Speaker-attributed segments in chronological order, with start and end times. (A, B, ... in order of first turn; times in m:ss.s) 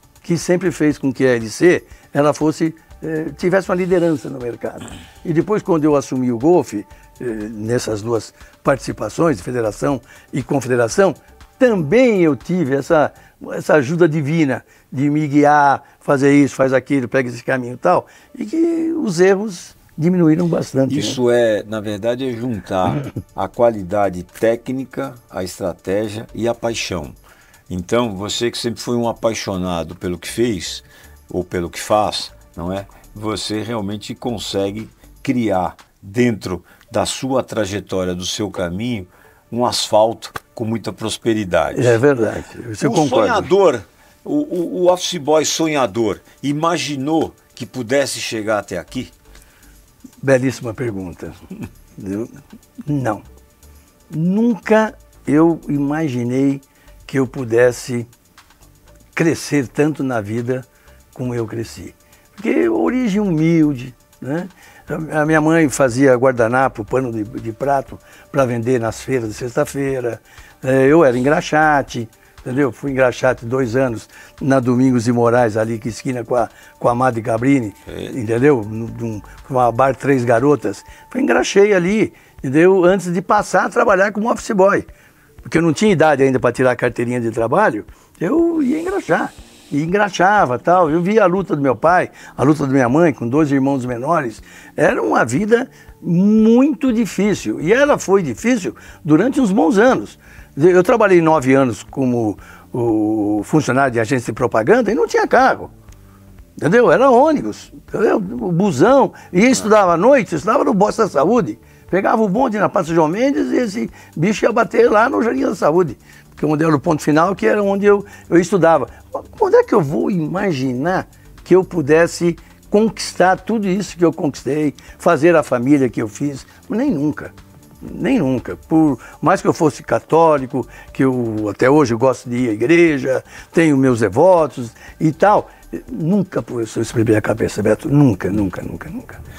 0:00.2-0:21.2 A
0:20.9-0:27.2 B
0:27.7-0:42.0 B
0:41.7-0:43.5 A
0:42.8-0:49.1 B
0:50.2-0:51.4 A
0:52.0-0:52.4 A
0:52.9-0:53.2 A
0:54.1-0:58.1 A
0:59.2-1:24.9 A
1:17.9-1:18.1 B
1:25.4-1:45.7 A
1:46.6-2:19.2 A